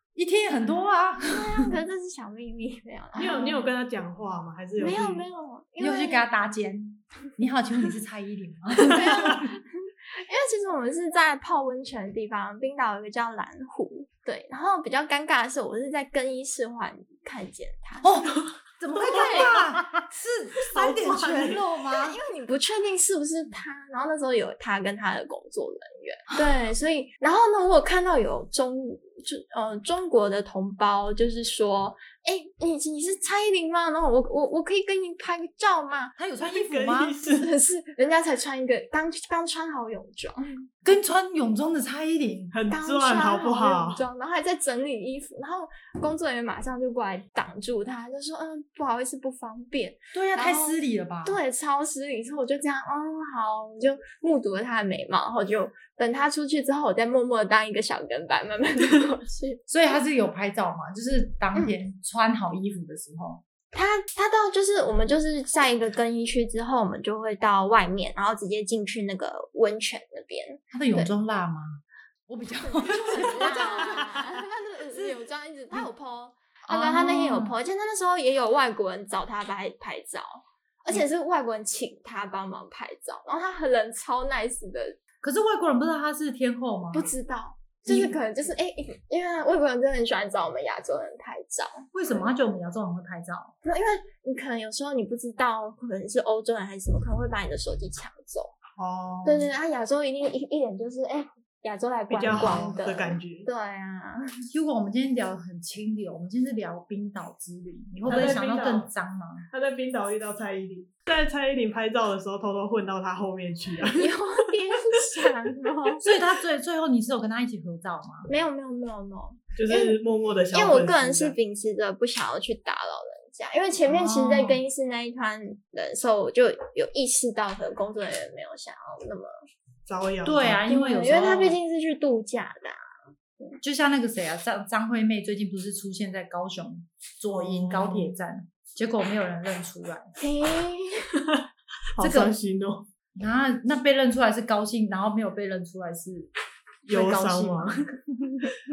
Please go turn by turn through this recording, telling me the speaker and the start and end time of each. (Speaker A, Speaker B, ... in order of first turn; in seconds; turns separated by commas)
Speaker A: 0.1-1.7, Speaker B: 1.2-3.6, Speaker C: 3.2-5.2, Speaker B: 4.8-6.3, Speaker A: 5.8-9.5, Speaker B: 8.8-18.1, Speaker A: 18.0-22.2, Speaker B: 19.0-19.5, Speaker C: 19.3-19.9, Speaker C: 20.7-21.6, Speaker B: 22.0-36.1, Speaker A: 36.2-37.1, Speaker C: 36.5-37.5, Speaker B: 37.4-40.7, Speaker A: 40.8-42.5, Speaker C: 42.5-44.0, Speaker B: 42.7-59.6, Speaker A: 50.1-51.4, Speaker A: 59.7-63.4, Speaker B: 63.7-71.1, Speaker A: 70.7-74.2, Speaker B: 73.0-85.0, Speaker A: 76.6-77.6, Speaker A: 85.2-87.1, Speaker B: 86.9-91.9, Speaker A: 87.9-88.2, Speaker A: 91.9-93.5, Speaker B: 93.6-98.5, Speaker C: 98.8-99.5, Speaker B: 99.2-104.2, Speaker C: 102.1-103.5, Speaker A: 102.4-102.8, Speaker A: 104.5-109.5, Speaker C: 108.0-108.9, Speaker C: 109.5-114.2, Speaker B: 114.0-116.0, Speaker A: 116.0-118.3, Speaker B: 118.3-120.0, Speaker C: 119.5-121.4, Speaker B: 120.5-129.3, Speaker A: 123.8-124.6, Speaker C: 129.9-130.6, Speaker A: 130.2-131.6, Speaker B: 130.7-132.8, Speaker A: 133.6-140.1, Speaker C: 137.3-138.1, Speaker B: 140.2-141.1, Speaker C: 141.9-142.9, Speaker A: 142.0-142.4, Speaker A: 143.1-146.3, Speaker A: 146.9-147.7, Speaker C: 146.9-147.7